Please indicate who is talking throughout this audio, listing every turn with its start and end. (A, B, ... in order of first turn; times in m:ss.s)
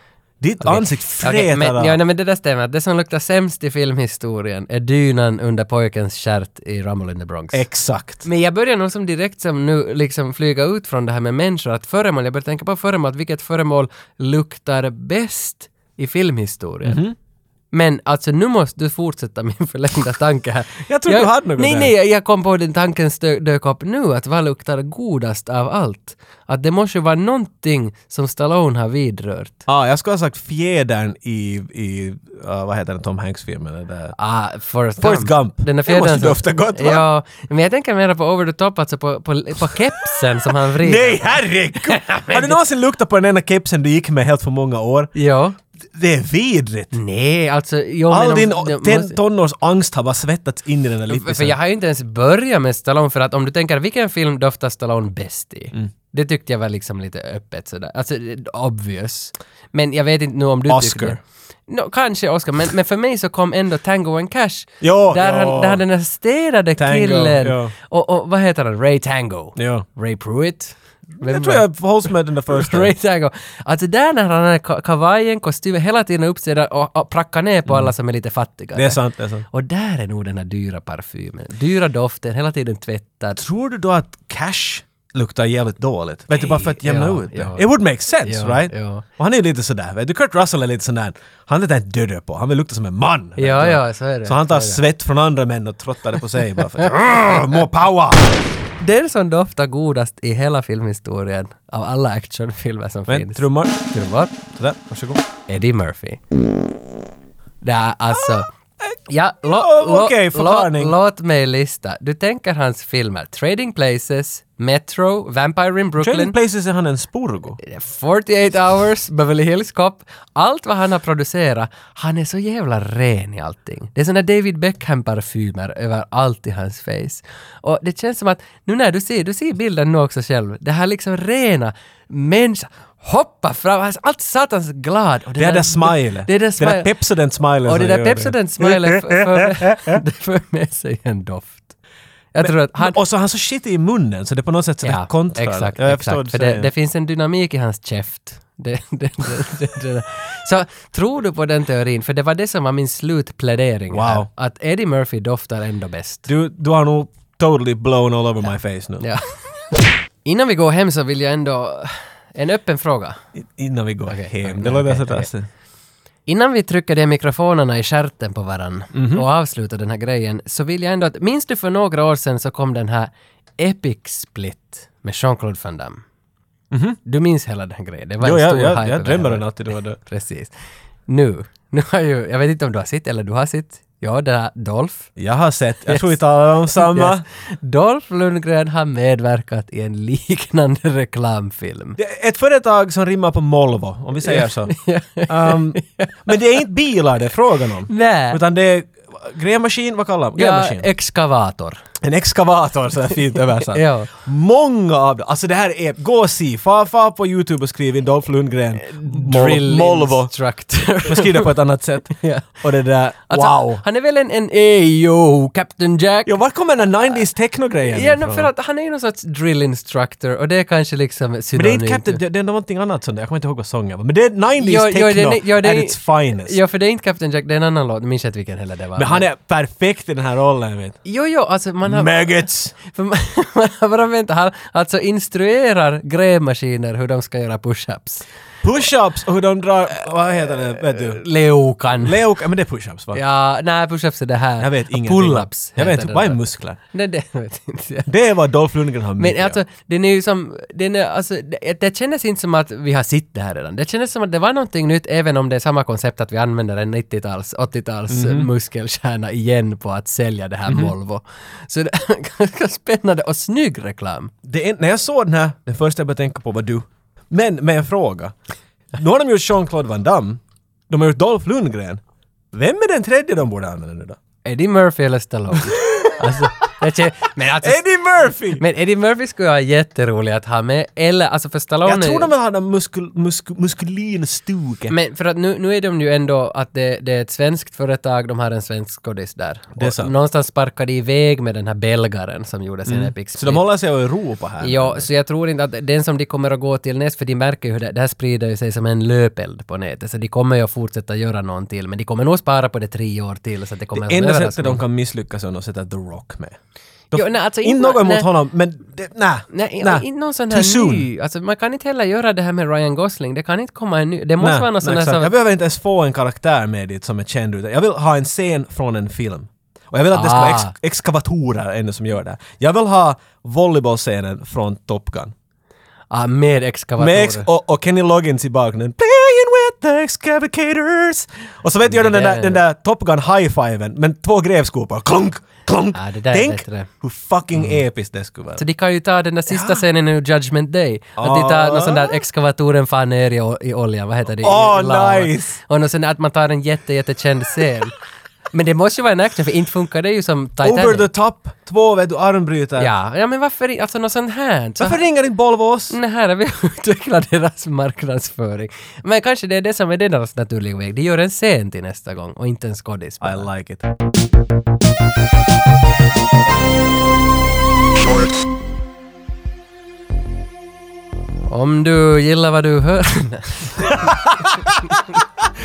0:00.4-0:02.0 A
0:00.6-0:07.6 B
0:07.5-0:08.2 A
0:08.2-0:17.0 B
0:16.8-0:17.1 A
0:17.7-0:29.6 B
0:20.8-0:21.9 A
0:29.7-0:34.1 A
0:34.2-0:42.6 B
0:35.0-0:37.0 A
0:40.5-0:45.1 A
0:45.1-0:45.6 B
0:45.9-0:46.9 A
0:46.9-0:49.2 B
0:48.1-0:51.6 A
0:51.1-1:11.6 B
1:00.7-1:01.2 A
1:04.8-1:05.8 A
1:06.8-1:07.7 A
1:09.6-1:09.8 A
1:11.2-1:12.9 A
1:12.5-1:19.0 B
1:17.7-1:17.9 A
1:18.8-1:19.4 A
1:19.5-1:23.4 B
1:23.3-1:38.4 A
1:26.3-1:27.6 B
1:28.2-1:29.0 B
1:33.4-1:34.8 B
1:38.8-1:44.3 B
1:43.1-1:43.8 A
1:44.5-1:45.2 A
1:45.5-1:46.2 B
1:47.6-1:48.5 B
1:48.2-1:51.0 A
1:49.1-1:56.4 B
1:56.0-1:57.6 A
1:57.6-2:16.9 B
2:15.4-2:20.0 A
2:17.6-2:21.7 B
2:22.3-2:23.0 B
2:22.4-2:26.7 A
2:24.8-2:36.3 B
2:33.9-2:34.3 A
2:36.3-2:39.1 A
2:40.2-2:43.2 B
2:43.3-2:45.5 A
2:44.1-2:45.3 B
2:46.2-2:56.0 B
2:48.9-2:49.2 A
2:56.7-2:57.0 A
2:57.0-2:59.4 B
2:58.2-3:00.0 A
3:00.0-3:00.5 B
3:01.1-3:05.1 B
3:05.2-3:07.2 A
3:05.9-3:06.2 B
3:06.8-3:12.0 B
3:12.0-3:14.7 A
3:14.2-3:16.3 B
3:15.2-3:20.9 A
3:17.9-3:18.4 B
3:20.3-3:21.8 B
3:22.0-3:30.3 A
3:23.7-3:24.1 B
3:28.8-3:31.5 B
3:31.0-3:33.8 A
3:32.1-3:32.6 B
3:33.3-3:36.3 B
3:36.2-3:38.5 A
3:37.9-3:42.2 B
3:41.6-3:46.6 A
3:44.6-3:49.2 B
3:49.0-3:51.0 A
3:51.0-3:58.2 B
3:51.8-3:52.7 A
3:58.6-4:01.2 A
4:00.9-4:02.2 B
4:02.0-4:03.2 A
4:03.1-4:06.4 B
4:04.6-4:06.8 A
4:06.9-4:08.1 B
4:08.1-4:09.6 A
4:09.2-4:24.3 B
4:18.1-4:18.5 A
4:20.7-4:20.9 A
4:24.4-4:28.3 A
4:28.9-4:32.0 A
4:32.5-4:34.2 A
4:34.4-4:37.8 B
4:35.8-4:36.4 A
4:37.6-4:38.6 A
4:38.6-4:42.3 B
4:41.8-4:44.9 A
4:44.9-4:53.6 B
4:49.8-4:50.1 A
4:52.9-4:55.0 A
4:54.6-5:04.8 B
5:03.9-5:06.6 A
5:07.1-5:11.1 A
5:07.1-5:08.3 B
5:09.5-5:15.3 B
5:14.4-5:25.3 A
5:20.1-5:20.7 B
5:26.1-5:27.5 B
5:27.0-5:38.6 A
5:31.8-5:32.6 B
5:35.9-5:36.9 B
5:38.5-5:47.9 B
5:39.5-5:39.8 A
5:41.2-5:42.2 A
5:44.4-5:45.6 A
5:48.5-5:51.1 B
5:50.6-5:52.9 A
5:52.8-5:55.0 B
5:54.8-5:56.0 A
5:55.9-6:03.5 B
6:03.2-6:03.9 A
6:11.5-6:14.2 B
6:13.8-6:15.0 A